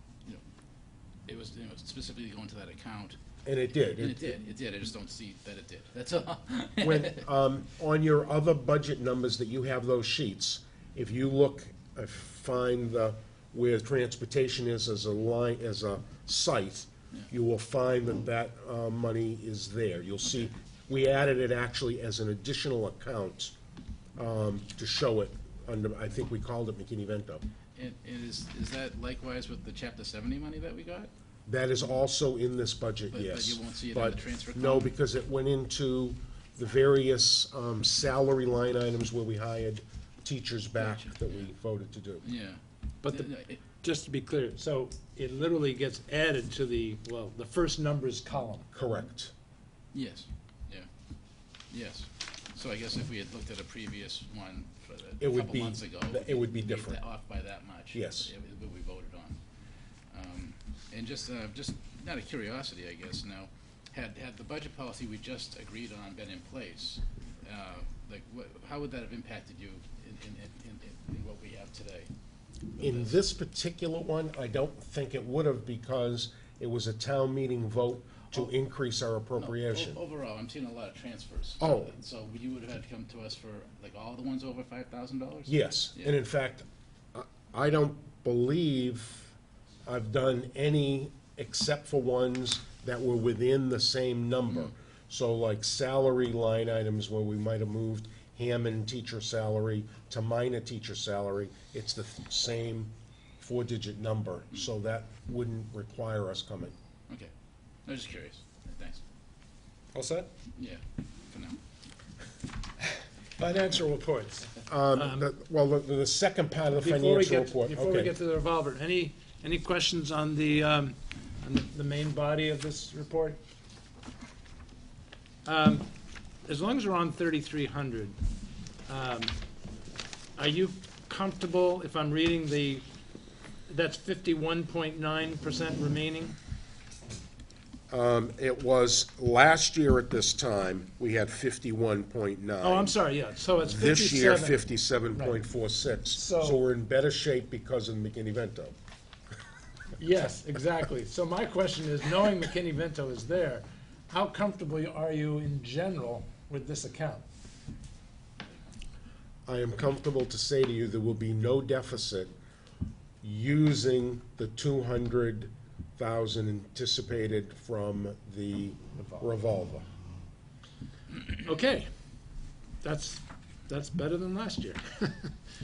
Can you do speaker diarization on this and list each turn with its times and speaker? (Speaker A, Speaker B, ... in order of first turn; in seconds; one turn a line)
Speaker A: 1.3-3.2
Speaker B: 3.4-4.3
Speaker A: 3.9-7.2
Speaker B: 6.8-23.5
Speaker B: 24.2-27.4
Speaker A: 27.8-31.1
Speaker B: 31.5-42.2
Speaker A: 33.1-34.9
Speaker A: 40.8-41.5
Speaker A: 42.2-43.6
Speaker C: 43.0-43.3
Speaker C: 43.8-48.7
Speaker B: 48.7-49.3
Speaker A: 49.9-50.9
Speaker A: 51.7-59.4
Speaker B: 55.2-57.0
Speaker B: 57.9-58.3
Speaker A: 60.1-72.1
Speaker A: 72.8-73.2
Speaker B: 72.8-80.0
Speaker A: 79.4-86.1
Speaker B: 81.6-81.9
Speaker B: 85.5-89.3
Speaker B: 89.8-106.7
Speaker A: 107.8-109.0
Speaker C: 109.9-110.3
Speaker A: 110.6-111.6
Speaker C: 113.4-115.3
Speaker B: 114.7-118.1
Speaker C: 116.8-123.4
Speaker C: 125.4-125.9
Speaker C: 126.4-128.2
Speaker C: 128.9-129.3
Speaker C: 130.3-132.8
Speaker C: 133.7-136.3
Speaker B: 137.9-142.9
Speaker C: 142.6-144.6
Speaker B: 143.6-148.7
Speaker C: 146.1-146.6
Speaker C: 150.0-157.2
Speaker B: 159.5-162.3
Speaker B: 163.2-169.8
Speaker C: 171.3-171.8
Speaker C: 172.8-175.3